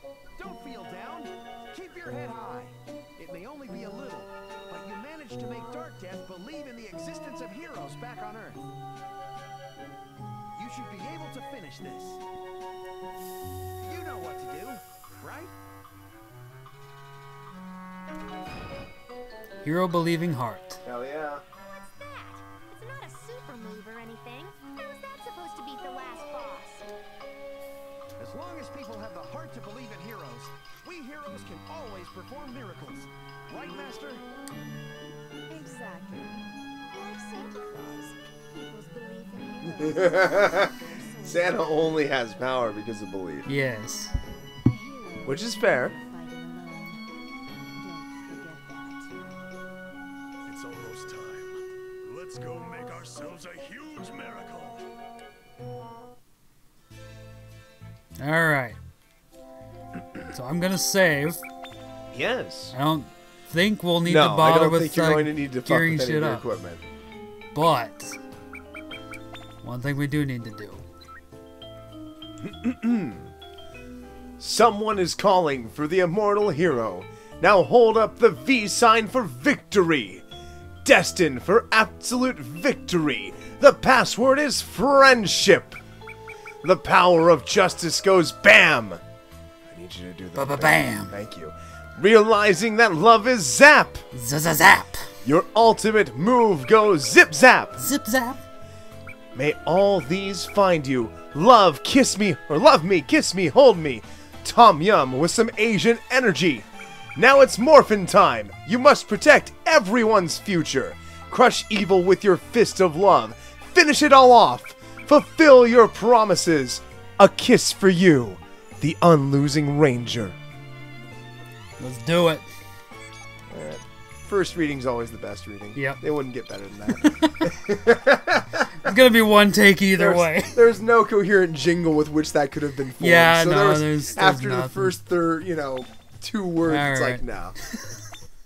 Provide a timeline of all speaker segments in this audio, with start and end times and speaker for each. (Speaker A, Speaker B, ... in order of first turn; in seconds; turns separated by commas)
Speaker A: 0.4-8.6, Speaker A: 10.6-12.2, Speaker A: 13.8-15.5, Speaker B: 19.6-20.8, Speaker C: 20.9-21.4, Speaker D: 21.6-26.9, Speaker A: 28.2-34.2, Speaker D: 35.5-41.8, Speaker C: 39.8-40.7, Speaker C: 41.2-43.5, Speaker B: 43.5-44.1, Speaker D: 44.6-47.0, Speaker C: 45.2-46.0, Speaker D: 47.8-49.1, Speaker E: 50.5-54.9, Speaker B: 58.2-58.8, Speaker B: 60.3-61.4, Speaker C: 62.1-62.8, Speaker B: 62.7-66.4, Speaker C: 64.0-66.8, Speaker B: 67.5-68.2, Speaker B: 69.6-70.8, Speaker C: 72.4-73.3, Speaker C: 74.4-80.2, Speaker C: 80.8-85.8, Speaker C: 86.6-89.0, Speaker C: 89.7-94.1, Speaker B: 90.4-91.1, Speaker B: 94.1-95.0, Speaker C: 95.2-97.8, Speaker B: 97.8-98.4, Speaker C: 99.3-120.4, Speaker B: 121.8-122.5, Speaker C: 123.5-128.9, Speaker B: 125.8-126.0, Speaker B: 128.8-130.6, Speaker C: 130.0-137.6, Speaker B: 133.0-134.9, Speaker B: 136.7-137.2